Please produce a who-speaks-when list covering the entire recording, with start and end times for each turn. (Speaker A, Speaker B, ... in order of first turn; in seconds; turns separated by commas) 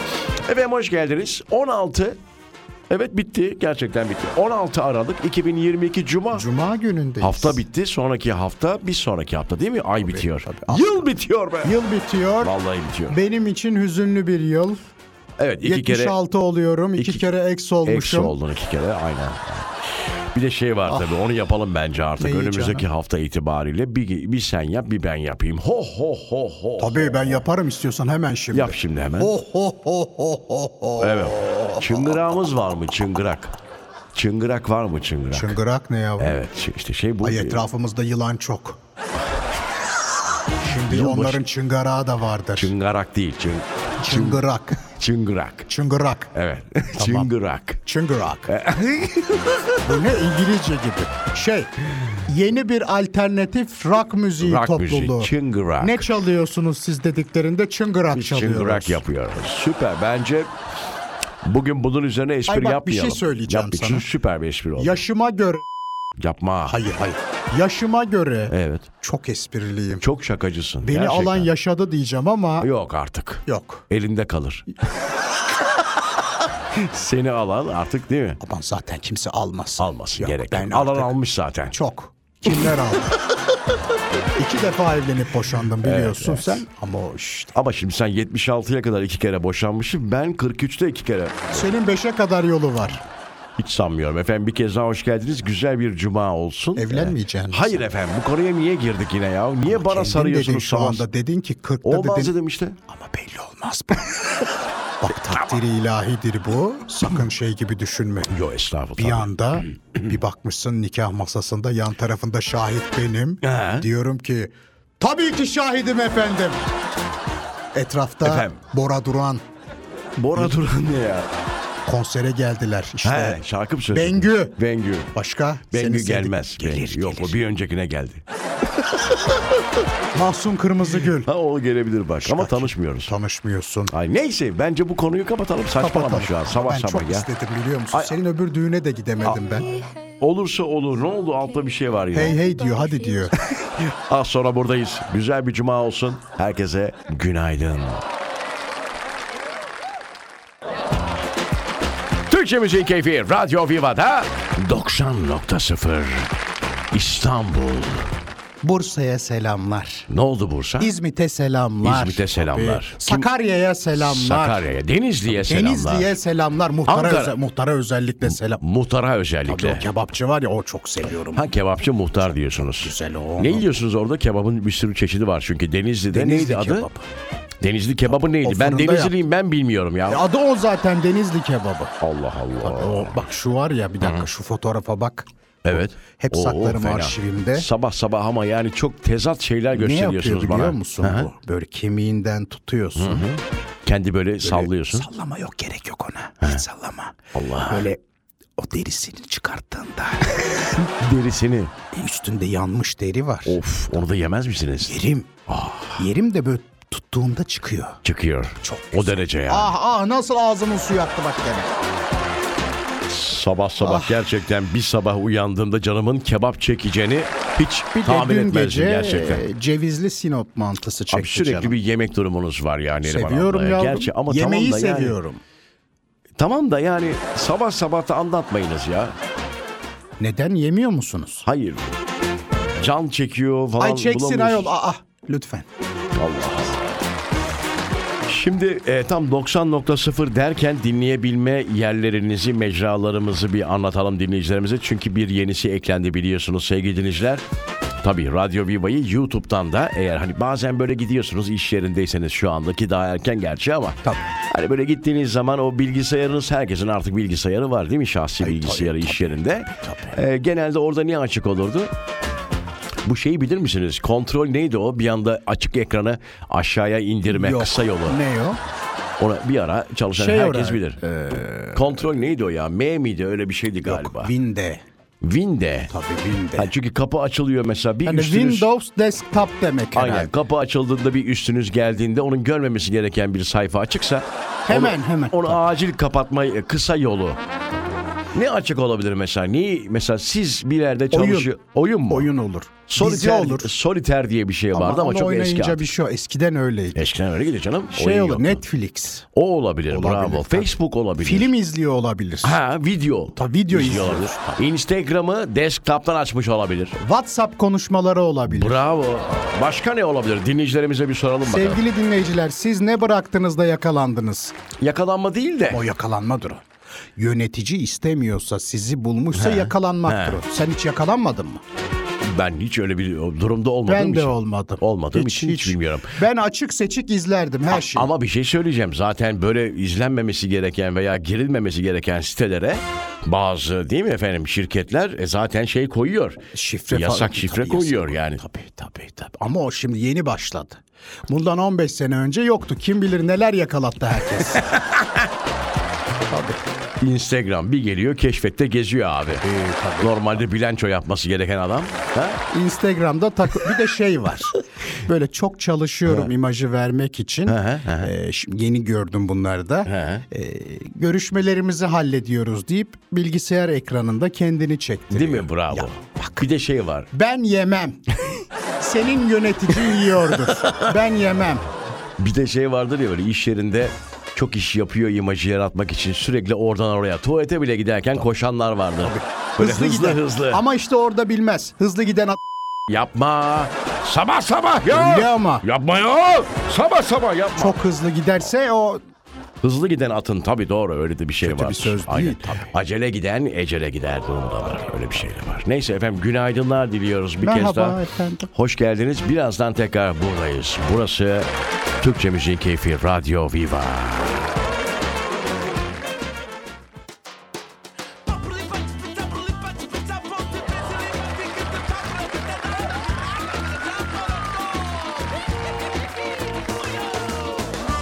Speaker A: 0.4-2.2, Speaker A: 2.9-6.5, Speaker B: 6.3-7.6, Speaker A: 7.2-11.8, Speaker B: 10.0-11.0, Speaker B: 11.6-12.5, Speaker A: 12.4-13.2, Speaker B: 13.1-14.8, Speaker A: 15.4-16.1, Speaker B: 15.6-18.3, Speaker A: 17.0-17.2, Speaker A: 17.8-27.4, Speaker B: 22.2-22.8, Speaker B: 26.8-32.2, Speaker A: 28.5-29.3, Speaker A: 31.0-33.5, Speaker A: 34.1-35.6, Speaker B: 35.3-36.4, Speaker A: 36.2-37.6, Speaker B: 37.2-38.8, Speaker B: 40.6-42.7, Speaker A: 40.8-41.4, Speaker A: 42.5-45.7, Speaker B: 44.0-44.9, Speaker B: 45.7-46.3, Speaker A: 46.3-47.8, Speaker B: 46.9-47.3, Speaker B: 47.8-48.5, Speaker A: 48.5-49.9, Speaker B: 49.8-59.0, Speaker A: 54.4-56.1, Speaker A: 58.1-60.5, Speaker A: 61.4-65.0, Speaker B: 62.5-64.1, Speaker B: 64.8-65.6, Speaker A: 66.2-66.8, Speaker B: 66.7-70.0, Speaker A: 68.5-68.9, Speaker A: 70.0-71.5, Speaker B: 70.8-72.7, Speaker A: 72.6-74.7, Speaker B: 73.5-73.9, Speaker A: 76.7-78.4, Speaker B: 78.4-81.1, Speaker A: 79.8-81.7, Speaker B: 81.7-83.2, Speaker A: 82.5-82.8, Speaker B: 84.4-87.5, Speaker A: 85.8-86.6, Speaker A: 87.5-91.7, Speaker B: 91.5-93.0, Speaker A: 93.6-101.1, Speaker B: 96.8-97.8, Speaker B: 99.6-102.3, Speaker A: 101.8-102.8, Speaker B: 102.9-108.3, Speaker A: 105.3-105.6, Speaker A: 108.3-109.3, Speaker B: 109.0-116.6, Speaker A: 113.4-113.9, Speaker B: 117.7-119.4, Speaker A: 118.2-118.6, Speaker A: 120.2-121.3, Speaker B: 121.8-123.4, Speaker A: 123.0-125.1, Speaker B: 123.9-124.6, Speaker B: 125.1-127.4, Speaker A: 125.7-128.2, Speaker B: 130.1-131.3, Speaker A: 131.0-133.1, Speaker B: 132.2-133.9, Speaker A: 133.9-137.3, Speaker B: 135.8-139.7, Speaker A: 140.2-142.4, Speaker B: 142.1-143.3, Speaker A: 143.5-148.0, Speaker A: 152.2-156.3, Speaker A: 156.9-158.2, Speaker B: 158.6-160.1, Speaker A: 160.1-160.9, Speaker B: 160.8-164.6, Speaker A: 161.8-163.3, Speaker A: 163.9-166.1, Speaker B: 165.3-168.6, Speaker A: 166.9-167.3, Speaker A: 168.2-169.8, Speaker B: 169.4-171.5, Speaker A: 171.3-176.9, Speaker B: 172.7-173.7, Speaker B: 176.1-177.0, Speaker A: 177.6-180.2, Speaker B: 178.3-179.1, Speaker B: 180.1-181.9, Speaker A: 182.0-183.2, Speaker B: 182.6-187.7, Speaker A: 184.0-184.3, Speaker A: 185.6-191.3, Speaker B: 189.7-193.3, Speaker A: 192.9-195.1, Speaker B: 194.4-198.0, Speaker A: 197.3-197.9, Speaker B: 198.6-200.7, Speaker A: 200.3-201.7, Speaker B: 201.9-203.6, Speaker A: 203.4-206.0, Speaker B: 204.8-205.3, Speaker B: 205.9-208.0, Speaker A: 208.0-209.7, Speaker B: 208.6-211.7, Speaker A: 213.1-219.4, Speaker B: 213.8-214.2, Speaker B: 217.9-221.7, Speaker A: 221.1-225.2, Speaker B: 223.0-225.4, Speaker A: 226.3-229.1, Speaker B: 230.2-231.4, Speaker A: 231.4-231.9, Speaker A: 232.8-234.7, Speaker B: 233.8-235.7, Speaker A: 236.1-236.8, Speaker A: 238.2-247.4, Speaker A: 248.0-261.9, Speaker B: 258.4-260.2, Speaker A: 263.0-268.2, Speaker B: 267.3-268.6, Speaker A: 269.2-271.0, Speaker B: 270.1-272.1, Speaker A: 271.7-274.3, Speaker B: 273.8-274.8, Speaker A: 275.2-275.9, Speaker B: 275.9-276.7, Speaker A: 276.6-278.7, Speaker B: 278.0-280.3, Speaker A: 279.9-287.4, Speaker B: 284.7-285.6, Speaker A: 288.3-292.3, Speaker B: 291.1-291.5, Speaker B: 292.1-293.7, Speaker A: 292.9-295.9, Speaker B: 294.7-297.1, Speaker A: 296.9-298.6, Speaker B: 297.9-299.2, Speaker A: 299.3-301.5, Speaker B: 299.9-302.6, Speaker A: 302.4-307.0, Speaker B: 303.3-304.6, Speaker B: 307.0-308.8, Speaker A: 308.5-311.8, Speaker B: 311.4-314.5, Speaker A: 314.8-315.8, Speaker B: 315.7-316.6, Speaker B: 317.2-321.6, Speaker A: 319.3-320.4, Speaker A: 322.2-326.2, Speaker B: 323.9-328.1, Speaker A: 327.7-338.4, Speaker B: 336.5-344.7, Speaker A: 344.5-345.3, Speaker B: 346.3-346.6, Speaker A: 347.0-349.4, Speaker B: 349.4-350.4, Speaker A: 350.0-352.4, Speaker B: 352.5-366.5, Speaker A: 356.1-356.3, Speaker A: 357.5-358.1, Speaker A: 359.9-360.2, Speaker A: 365.1-367.1, Speaker B: 367.1-368.1, Speaker B: 368.8-371.6, Speaker A: 369.7-370.9, Speaker A: 372.2-380.6, Speaker B: 379.0-382.4, Speaker A: 382.9-387.8, Speaker B: 384.8-385.6, Speaker B: 387.6-389.0, Speaker A: 389.6-398.0, Speaker B: 391.4-392.7, Speaker B: 397.4-398.5, Speaker A: 398.5-401.5, Speaker A: 402.0-404.5, Speaker A: 408.3-412.9, Speaker A: 413.9-414.6